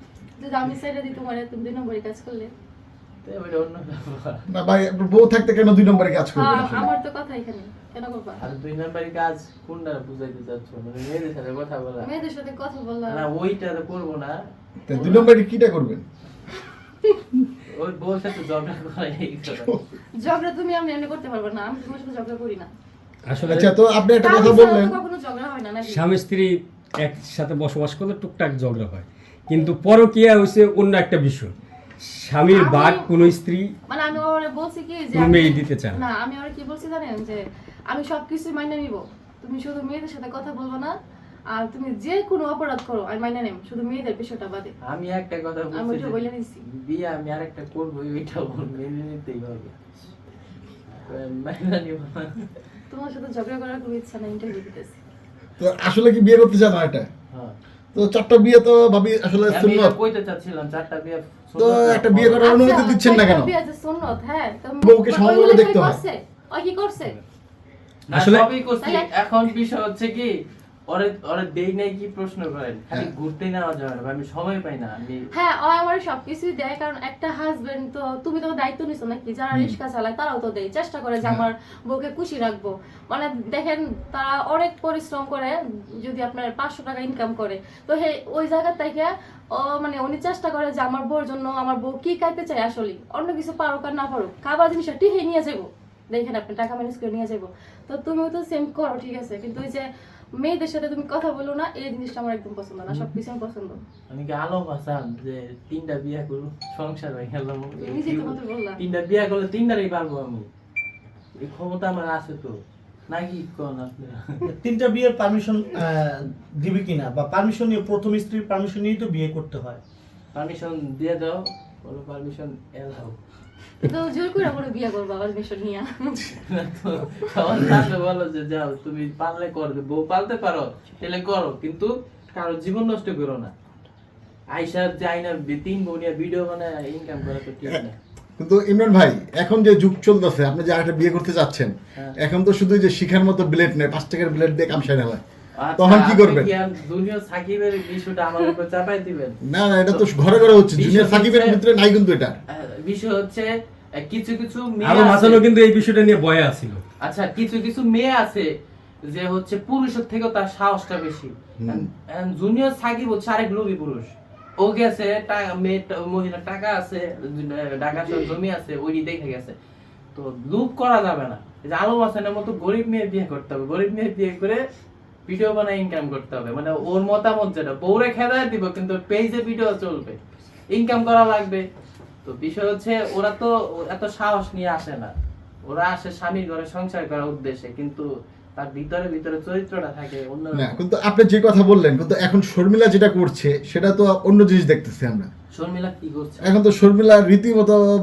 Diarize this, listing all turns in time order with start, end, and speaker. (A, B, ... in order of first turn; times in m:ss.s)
0:00.4-0:02.5 A
0:03.2-0:04.4 B
0:04.5-0:06.9 C
0:06.4-0:08.4 A
0:08.4-0:12.1 B
0:12.0-0:13.2 A
0:13.1-0:14.4 B
0:14.8-0:16.0 C
0:15.0-0:15.2 A
0:15.0-0:15.3 B
0:17.7-0:19.8 B
0:20.2-0:22.7 A
0:23.3-0:23.7 D
0:23.4-0:25.0 C
0:24.2-0:26.1 A
0:25.8-0:33.7 D
0:32.5-0:33.3 A
0:33.9-0:40.9 A
0:35.1-0:36.0 D
0:41.5-0:44.7 A
0:44.8-0:46.3 B
0:45.7-0:46.6 A
0:46.8-0:49.9 B
0:50.9-0:52.4 B
0:52.9-0:55.0 A
0:55.6-0:57.1 C
0:57.9-0:59.9 C
0:59.5-1:02.5 B
1:01.6-1:03.5 C
1:02.4-1:07.2 A
1:04.8-1:06.0 C
1:08.1-1:10.3 B
1:08.1-1:08.4 D
1:08.8-1:09.1 A
1:10.9-1:15.3 B
1:15.3-1:43.8 A
1:44.1-1:50.5 B
1:47.8-1:48.8 A
1:51.4-1:52.6 B
1:53.1-1:54.4 B
1:54.4-1:59.8 E
2:00.3-2:03.2 B
2:03.8-2:06.3 A
2:06.5-2:13.5 B
2:14.5-2:18.0 B
2:18.4-2:25.2 C
2:25.6-2:29.4 B
2:25.8-2:26.5 C
2:29.4-2:32.4 C
2:30.7-2:31.6 B
2:32.5-2:33.5 B
2:34.0-2:35.4 B
2:34.8-2:36.8 D
2:37.0-2:38.5 B
2:39.1-2:49.5 B
2:41.6-2:41.8 C
2:50.1-2:54.6 B
2:55.3-3:00.2 B
3:00.7-3:01.6 B
3:02.2-3:05.1 B
3:05.6-3:10.8 B
3:10.5-3:15.3 C
3:15.5-3:16.5 B
3:16.4-3:17.8 C